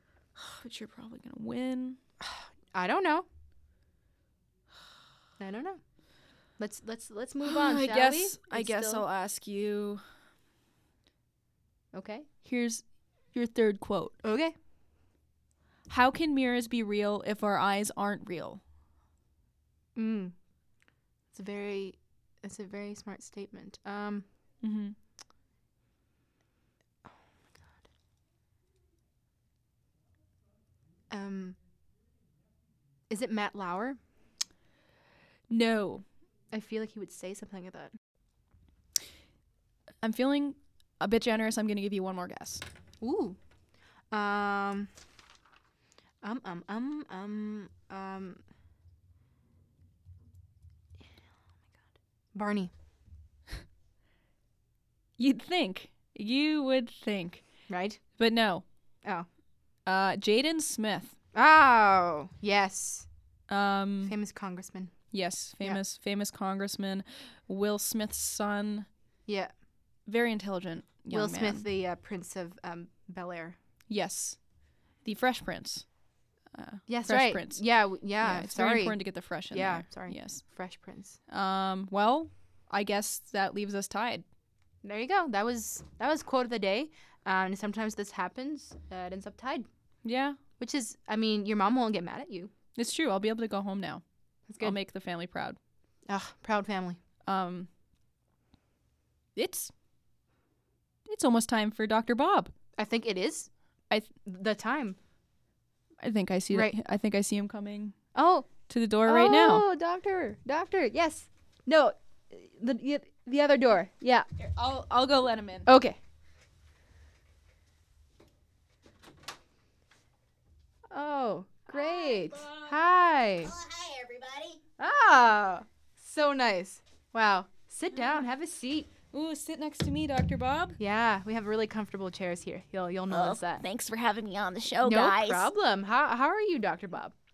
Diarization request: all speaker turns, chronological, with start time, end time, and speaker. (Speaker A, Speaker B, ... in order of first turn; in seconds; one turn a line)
Speaker A: 0.3-2.0
Speaker B: 2.2-3.3
Speaker B: 5.4-5.8
Speaker B: 6.6-9.1
Speaker A: 7.4-10.0
Speaker B: 11.9-12.3
Speaker A: 12.4-14.2
Speaker B: 14.2-14.5
Speaker A: 15.9-18.6
Speaker B: 19.9-20.3
Speaker B: 21.3-24.2
Speaker A: 24.6-24.9
Speaker B: 31.1-31.6
Speaker B: 33.1-34.0
Speaker A: 35.5-36.0
Speaker B: 36.5-37.9
Speaker A: 40.0-42.6
Speaker B: 43.0-43.4
Speaker B: 44.1-44.9
Speaker B: 46.2-48.4
Speaker B: 52.3-52.7
Speaker A: 55.2-57.4
Speaker B: 57.7-58.0
Speaker A: 58.2-58.6
Speaker A: 59.9-61.1
Speaker B: 61.3-63.1
Speaker A: 63.5-64.1
Speaker B: 64.0-65.0
Speaker A: 65.1-68.9
Speaker B: 69.2-69.5
Speaker A: 70.0-71.7
Speaker B: 71.1-73.6
Speaker A: 73.9-74.4
Speaker A: 75.0-75.9
Speaker A: 76.5-77.6
Speaker B: 76.9-81.2
Speaker A: 78.2-80.4
Speaker A: 81.3-84.2
Speaker B: 84.8-89.7
Speaker A: 90.0-90.4
Speaker B: 90.6-92.5
Speaker A: 92.8-94.0
Speaker B: 94.5-94.8
Speaker A: 94.6-95.6
Speaker B: 96.1-97.0
Speaker A: 97.3-97.7
Speaker A: 99.3-99.7
Speaker A: 101.1-102.5
Speaker B: 102.8-103.5
Speaker B: 104.2-105.0
Speaker A: 106.0-107.9
Speaker B: 108.1-108.5
Speaker A: 108.7-109.6
Speaker B: 109.0-114.2
Speaker A: 114.4-115.7
Speaker B: 115.7-116.0
Speaker B: 120.9-123.6
Speaker C: 123.6-124.6
Speaker B: 124.8-128.9
Speaker A: 129.1-130.8
Speaker B: 130.8-133.6
Speaker C: 133.1-135.4
Speaker B: 134.8-137.1